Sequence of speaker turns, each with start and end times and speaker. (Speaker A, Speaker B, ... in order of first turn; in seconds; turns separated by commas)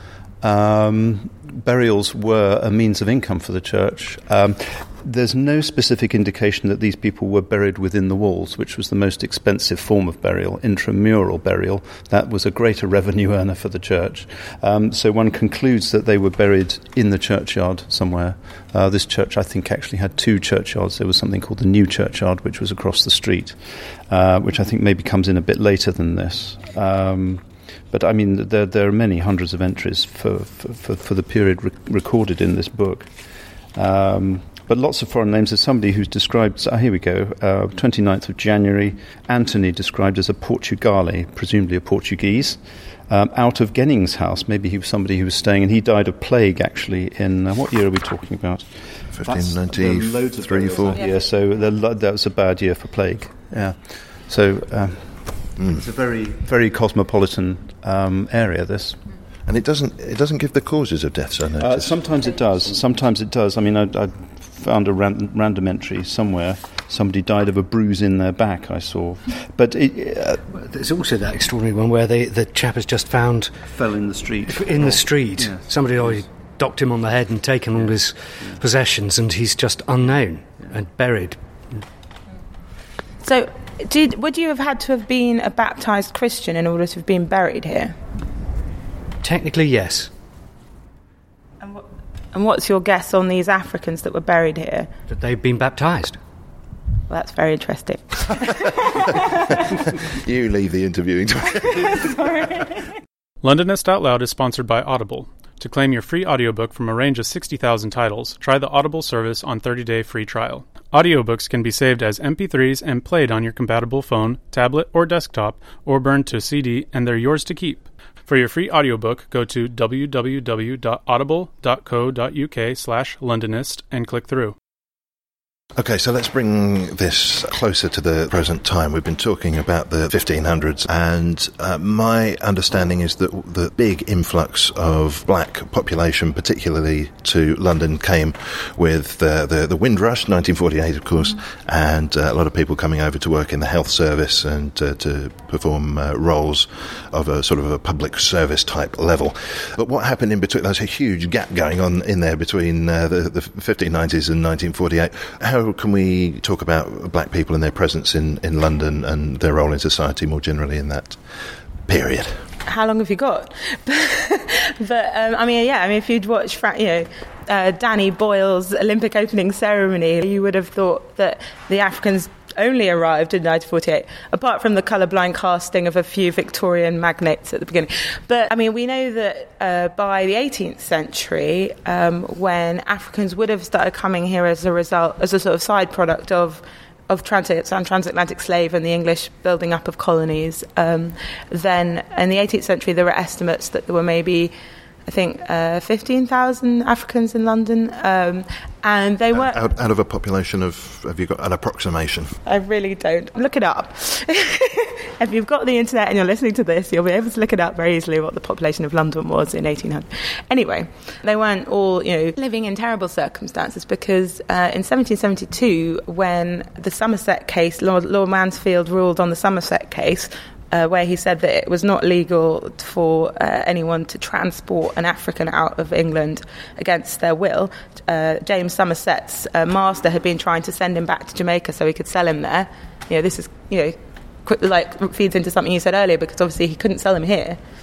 Speaker A: 0.4-33.2, Speaker A: 33.7-59.0, Speaker B: 49.1-51.0, Speaker B: 59.5-62.0, Speaker A: 61.6-70.4, Speaker C: 70.5-73.6, Speaker A: 73.7-75.6, Speaker C: 74.5-81.4, Speaker D: 83.2-88.0, Speaker C: 89.2-90.1, Speaker D: 91.6-94.9, Speaker C: 95.1-96.2, Speaker D: 97.1-99.5, Speaker B: 100.1-102.2, Speaker D: 102.2-102.6, Speaker E: 103.4-124.5, Speaker B: 125.8-161.2, Speaker B: 161.9-162.4, Speaker D: 162.7-194.5, Speaker D: 195.1-199.6, Speaker B: 199.3-202.4, Speaker D: 202.4-237.6